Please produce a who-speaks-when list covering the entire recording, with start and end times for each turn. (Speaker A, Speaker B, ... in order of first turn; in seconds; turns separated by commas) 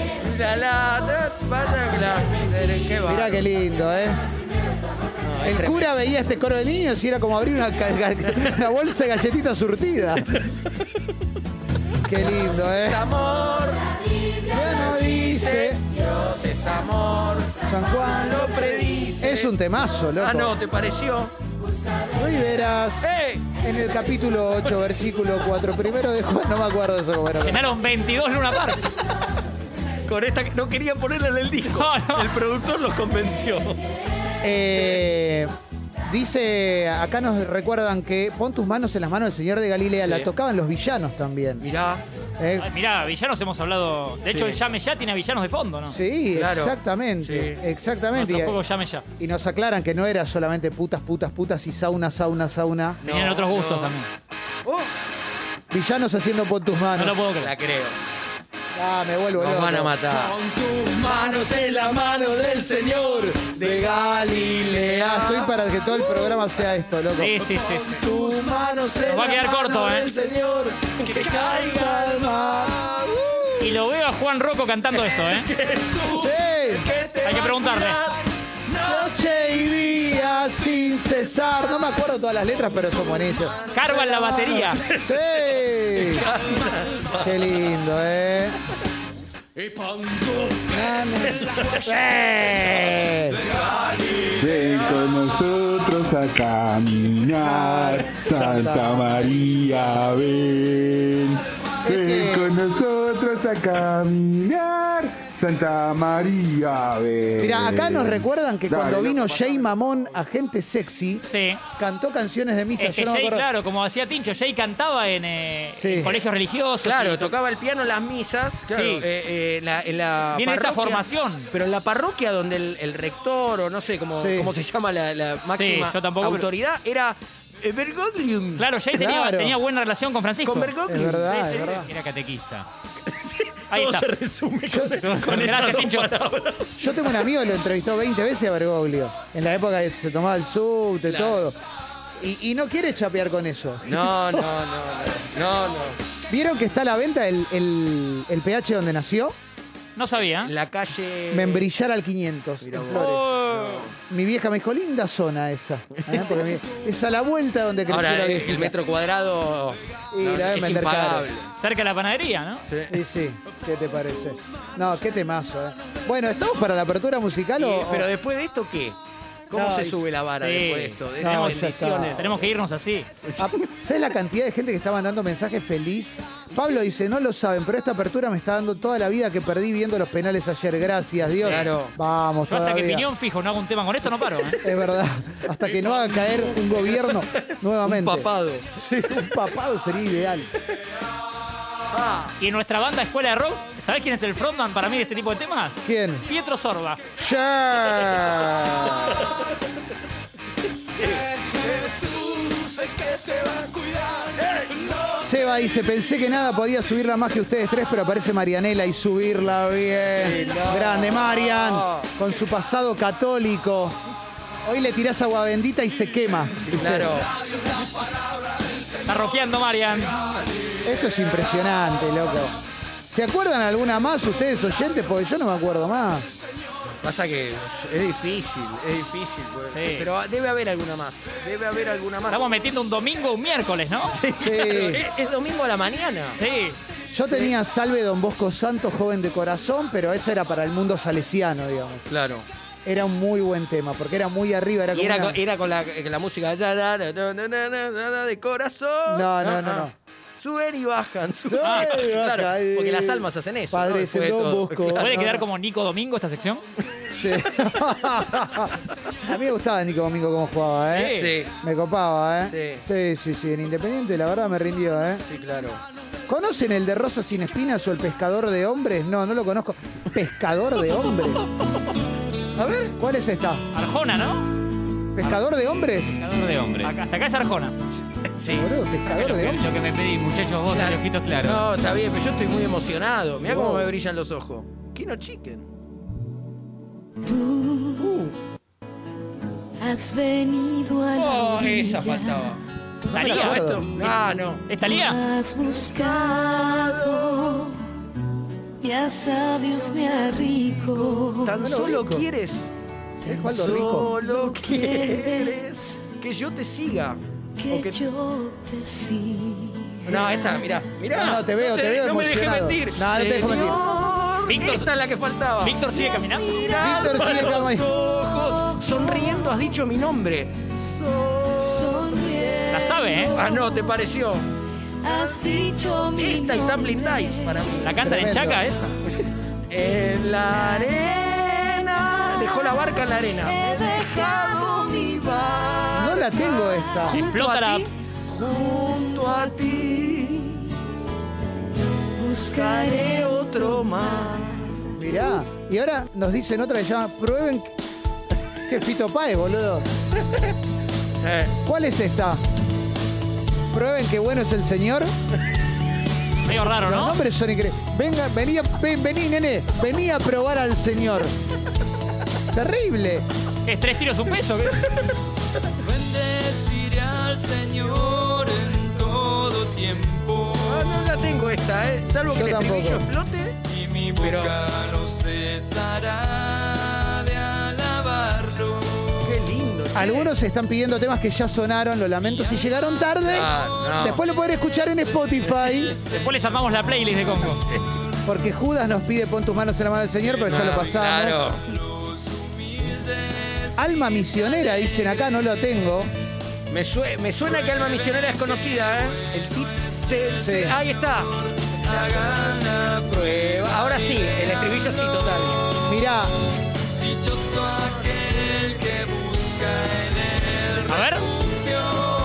Speaker A: 0.2-3.5, Speaker B: 3.1-4.2, Speaker A: 5.2-5.9, Speaker B: 5.4-10.4, Speaker B: 12.1-13.1, Speaker A: 12.8-13.8, Speaker B: 14.5-15.8, Speaker A: 15.1-19.5, Speaker B: 17.7-20.5, Speaker A: 20.2-21.3, Speaker B: 22.1-23.1, Speaker A: 23.0-23.5, Speaker B: 23.6-27.6, Speaker C: 27.4-28.8, Speaker A: 30.1-33.8, Speaker C: 31.7-32.4, Speaker B: 34.4-35.5, Speaker B: 36.1-41.6, Speaker A: 40.0-40.3, Speaker A: 41.6-42.0, Speaker B: 42.4-42.7, Speaker C: 42.6-46.0, Speaker A: 44.3-44.6, Speaker B: 45.9-48.6, Speaker A: 46.3-47.6, Speaker C: 48.1-49.0, Speaker B: 49.2-53.0, Speaker A: 53.0-54.0, Speaker C: 53.0-54.1, Speaker B: 55.7-57.2, Speaker C: 57.0-57.5, Speaker A: 57.4-58.0, Speaker B: 58.8-60.0, Speaker A: 59.4-60.4, Speaker D: 60.5-60.9, Speaker B: 61.0-72.8, Speaker A: 64.5-66.5, Speaker C: 67.2-68.0, Speaker C: 69.0-70.1, Speaker A: 70.8-72.1, Speaker C: 73.6-75.5, Speaker A: 75.2-76.2, Speaker B: 76.1-76.9, Speaker A: 76.8-79.1, Speaker C: 77.2-78.0, Speaker B: 78.8-86.3, Speaker C: 83.7-84.8, Speaker A: 85.9-87.5, Speaker B: 87.2-88.6, Speaker D: 90.0-90.5, Speaker B: 90.7-93.4, Speaker A: 91.4-91.9, Speaker A: 92.5-92.9, Speaker E: 94.4-109.1, Speaker B: 97.4-99.2, Speaker B: 101.8-102.5, Speaker B: 107.4-111.2, Speaker A: 109.1-110.0, Speaker C: 111.2-111.6, Speaker B: 111.8-113.5, Speaker C: 112.8-117.3, Speaker B: 115.8-116.2, Speaker A: 116.8-128.7, Speaker C: 118.7-119.1, Speaker C: 120.3-121.5, Speaker B: 124.1-124.5, Speaker C: 125.5-126.5, Speaker C: 128.6-132.0, Speaker B: 128.9-129.6, Speaker A: 130.4-131.5, Speaker B: 130.9-131.9, Speaker F: 131.8-132.7, Speaker A: 133.1-137.2, Speaker C: 133.7-134.1, Speaker B: 134.7-135.2, Speaker C: 135.2-136.1, Speaker B: 136.8-141.6, Speaker A: 141.1-141.4, Speaker B: 142.2-144.5, Speaker A: 143.9-146.0, Speaker B: 146.3-149.4, Speaker C: 150.0-150.5, Speaker A: 150.4-151.7, Speaker B: 151.3-153.3, Speaker A: 152.6-153.9, Speaker C: 152.9-153.9, Speaker B: 154.1-158.8, Speaker A: 155.9-156.5, Speaker A: 157.9-161.5, Speaker B: 160.1-161.3, Speaker C: 161.5-162.6, Speaker A: 162.7-163.0, Speaker B: 162.9-168.1, Speaker A: 167.6-169.0, Speaker A: 169.5-172.5, Speaker B: 169.5-170.0, Speaker C: 170.4-171.3, Speaker B: 171.2-172.3, Speaker C: 172.1-173.1, Speaker A: 173.2-173.7, Speaker B: 173.4-183.1, Speaker A: 181.4-181.9, Speaker C: 182.5-184.6, Speaker B: 184.6-190.5, Speaker A: 185.7-188.7, Speaker A: 191.9-192.3, Speaker C: 192.4-197.0, Speaker B: 195.8-196.3, Speaker B: 197.2-199.3, Speaker A: 200.9-203.8, Speaker A: 204.4-204.8, Speaker B: 205.2-214.0, Speaker A: 210.2-212.1, Speaker B: 214.7-217.2, Speaker A: 216.7-217.3, Speaker C: 219.1-220.2, Speaker B: 220.8-222.6, Speaker B: 223.1-226.3, Speaker A: 227.0-232.6, Speaker C: 229.7-230.1, Speaker C: 232.3-234.2, Speaker A: 234.2-236.4, Speaker B: 234.4-235.0, Speaker C: 236.3-236.8, Speaker B: 237.1-242.1, Speaker A: 242.1-242.5, Speaker B: 242.8-245.4, Speaker A: 244.9-255.2, Speaker B: 249.1-249.9, Speaker B: 251.5-255.4, Speaker C: 251.6-251.9, Speaker C: 254.9-256.6, Speaker B: 257.1-265.2, Speaker C: 260.9-261.3, Speaker A: 260.9-261.5, Speaker A: 262.5-262.8, Speaker A: 265.3-265.8, Speaker B: 266.3-271.4, Speaker A: 272.6-273.0, Speaker B: 273.0-273.6, Speaker C: 273.7-274.5, Speaker B: 275.1-276.2, Speaker F: 276.2-277.0, Speaker C: 276.8-277.8, Speaker A: 278.4-278.7, Speaker B: 278.5-279.6, Speaker F: 279.2-281.7, Speaker A: 280.7-285.6, Speaker B: 283.4-283.9, Speaker G: 287.2-288.2, Speaker A: 288.0-288.3, Speaker G: 289.8-292.5, Speaker A: 291.1-292.6, Speaker B: 293.1-293.9, Speaker C: 293.1-293.7, Speaker A: 293.2-294.7, Speaker C: 294.7-295.2, Speaker G: 294.8-297.8, Speaker A: 295.6-297.7, Speaker G: 298.8-301.8, Speaker A: 301.4-302.7, Speaker B: 301.6-302.3, Speaker B: 303.3-304.1, Speaker G: 303.3-305.7, Speaker A: 303.5-307.2, Speaker G: 307.6-311.0, Speaker A: 307.7-308.0, Speaker A: 310.1-315.9, Speaker B: 311.1-313.8, Speaker C: 314.5-314.9, Speaker C: 315.6-316.5, Speaker G: 316.1-317.0, Speaker A: 316.4-322.5, Speaker B: 316.8-317.9, Speaker G: 318.6-319.4, Speaker G: 321.6-323.9, Speaker C: 322.7-323.4, Speaker A: 323.3-324.5, Speaker G: 325.0-327.8, Speaker A: 326.1-328.1, Speaker C: 327.8-328.8, Speaker B: 328.0-328.6, Speaker A: 329.7-340.6, Speaker G: 333.5-335.3, Speaker B: 335.9-337.2, Speaker C: 337.1-337.9, Speaker G: 339.0-340.3, Speaker G: 342.2-344.5, Speaker A: 342.3-344.5, Speaker B: 345.0-347.7, Speaker B: 348.7-349.9, Speaker A: 351.2-351.6, Speaker B: 351.7-352.4, Speaker B: 353.7-355.1, Speaker C: 356.4-357.2, Speaker B: 356.8-361.3, Speaker B: 362.5-363.3, Speaker C: 363.7-364.8, Speaker D: 365.8-370.9, Speaker A: 370.6-373.6, Speaker B: 372.3-373.1, Speaker D: 373.6-379.1, Speaker A: 374.2-374.6, Speaker A: 379.2-380.3, Speaker B: 379.9-385.9, Speaker A: 383.3-384.2, Speaker C: 386.1-387.6, Speaker B: 388.2-391.5, Speaker A: 390.5-391.6, Speaker D: 391.7-393.6, Speaker B: 393.8-396.1, Speaker A: 396.7-402.2, Speaker B: 400.4-400.8, Speaker D: 401.9-403.1, Speaker A: 402.9-405.7, Speaker B: 405.9-406.4, Speaker D: 407.0-412.0, Speaker C: 410.9-411.3